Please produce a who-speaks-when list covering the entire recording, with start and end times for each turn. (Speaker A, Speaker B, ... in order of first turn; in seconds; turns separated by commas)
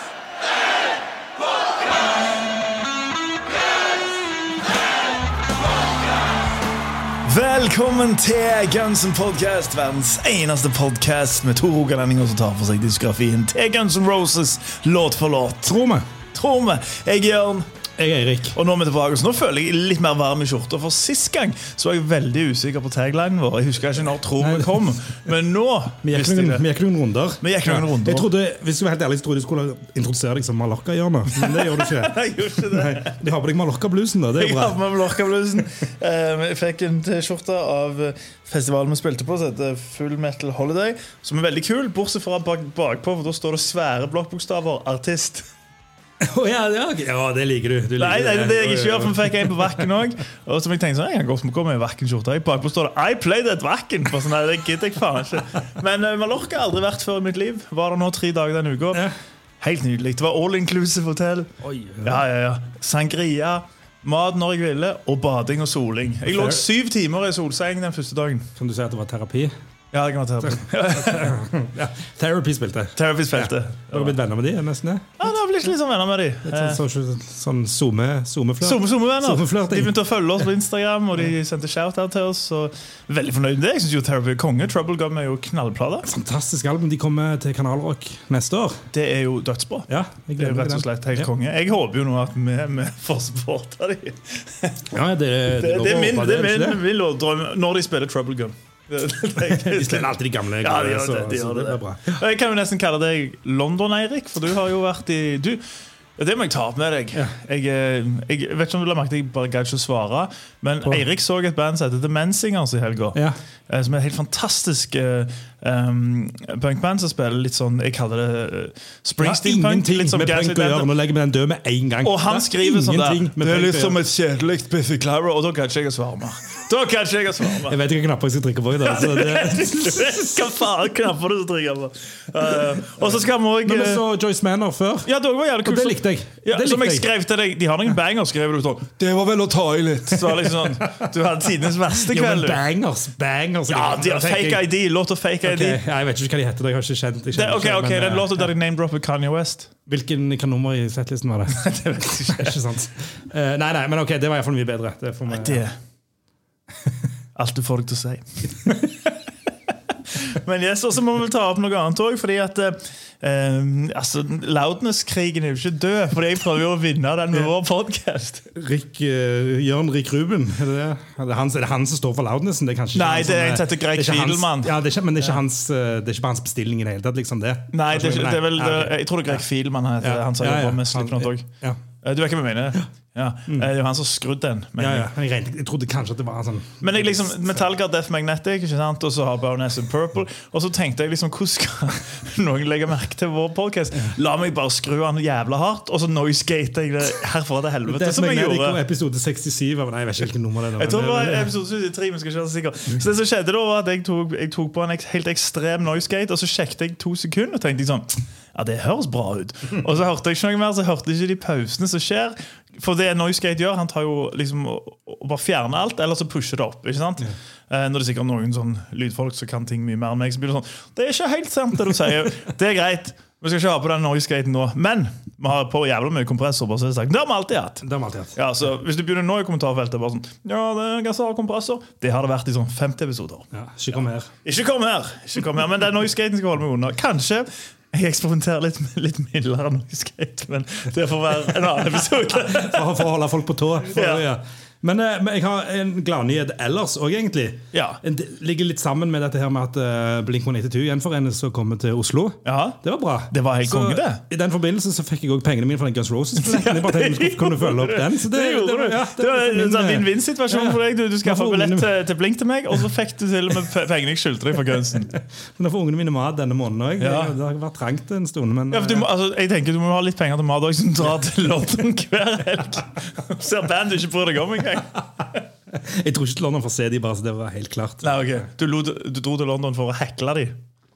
Speaker A: 7.2-15.8, Speaker B: 15.6-16.1, Speaker A: 16.3-17.7, Speaker B: 18.0-18.6, Speaker A: 18.5-26.6, Speaker B: 24.4-24.9, Speaker B: 26.0-34.8, Speaker A: 27.4-28.3, Speaker A: 31.3-33.2, Speaker A: 34.4-45.5, Speaker B: 46.2-49.9, Speaker A: 48.0-59.1, Speaker A: 59.6-61.5, Speaker B: 61.6-62.2, Speaker A: 62.0-68.5, Speaker B: 66.3-66.6, Speaker B: 68.5-69.5, Speaker A: 69.9-71.5, Speaker B: 70.4-75.3, Speaker A: 73.0-74.2, Speaker A: 75.2-76.8, Speaker B: 76.4-80.5, Speaker A: 78.6-86.1, Speaker B: 86.0-88.8, Speaker A: 88.9-94.9, Speaker B: 89.9-91.3, Speaker B: 94.9-96.8, Speaker A: 95.5-105.6, Speaker B: 99.4-102.2, Speaker A: 106.2-120.9, Speaker B: 113.1-113.4, Speaker B: 119.2-124.0, Speaker A: 122.0-127.8, Speaker B: 127.7-130.5, Speaker A: 128.8-134.0, Speaker B: 133.6-135.1, Speaker A: 135.0-142.6, Speaker B: 135.6-137.1, Speaker B: 139.1-141.0, Speaker B: 141.9-144.7, Speaker A: 143.7-145.8, Speaker B: 145.4-148.5, Speaker A: 147.3-149.7, Speaker B: 149.9-155.7, Speaker A: 151.5-152.6, Speaker A: 155.3-155.8, Speaker A: 157.3-159.1, Speaker A: 160.2-168.5, Speaker B: 168.5-179.4, Speaker A: 172.9-175.3, Speaker A: 177.7-181.5, Speaker B: 180.0-181.8, Speaker A: 182.0-185.1, Speaker B: 184.8-187.6, Speaker A: 186.8-198.8, Speaker B: 197.8-201.5, Speaker A: 200.8-233.4, Speaker B: 227.8-228.3, Speaker B: 233.5-234.3, Speaker A: 234.4-242.9, Speaker B: 242.1-262.0, Speaker A: 243.9-244.2, Speaker A: 247.7-248.0, Speaker A: 252.4-252.8, Speaker A: 253.3-254.2, Speaker A: 256.4-265.1, Speaker B: 265.1-269.1, Speaker A: 267.0-267.3, Speaker A: 268.7-275.4, Speaker B: 275.7-278.2, Speaker A: 278.0-280.6